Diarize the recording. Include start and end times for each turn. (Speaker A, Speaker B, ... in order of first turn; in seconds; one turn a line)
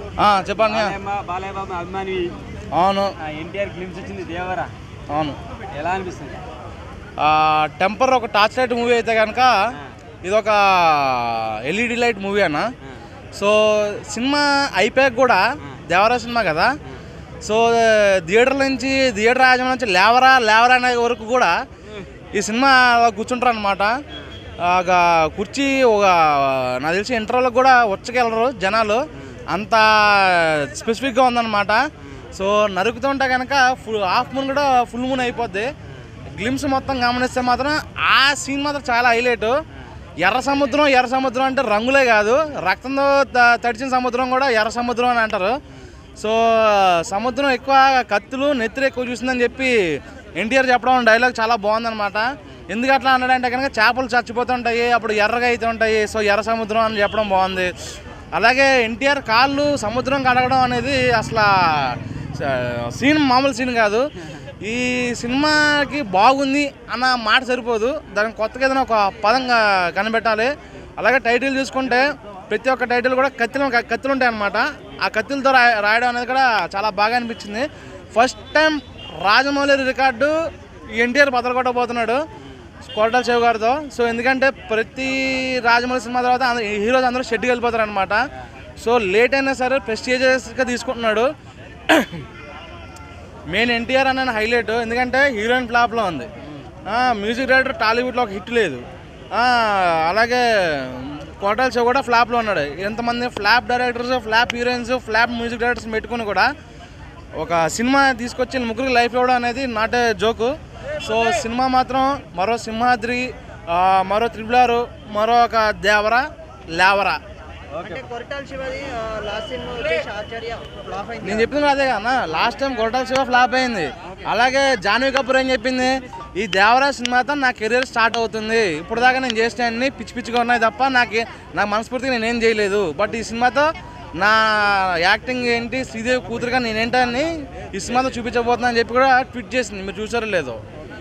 Speaker A: 0.2-0.9
Speaker B: 0.6-2.4
Speaker A: 2.7-3.1
Speaker B: 3.2-4.7
Speaker A: 5.1-5.4
Speaker B: 5.7-6.4
Speaker A: 7.2-9.5
Speaker A: 10.2-12.7
Speaker A: 13.4-16.7
Speaker A: 17.4-21.5
Speaker A: 22.3-23.9
Speaker A: 24.6-31.8
Speaker B: 29.2-29.4
Speaker B: 32.0-32.3
Speaker A: 32.3-35.7
Speaker A: 36.3-39.5
Speaker A: 40.2-45.5
Speaker A: 46.2-49.7
Speaker A: 50.4-57.7
Speaker A: 58.3-64.1
Speaker A: 64.6-80.3
Speaker A: 80.9-82.2
Speaker B: 82.4-82.7
Speaker A: 82.8-88.2
Speaker A: 88.8-91.3
Speaker A: 91.9-92.3
Speaker A: 93.5-96.3
Speaker A: 96.9-98.8
Speaker A: 99.3-106.5
Speaker A: 107.4-117.2
Speaker B: 117.7-118.0
Speaker C: 117.9-121.2
Speaker A: 121.2-140.6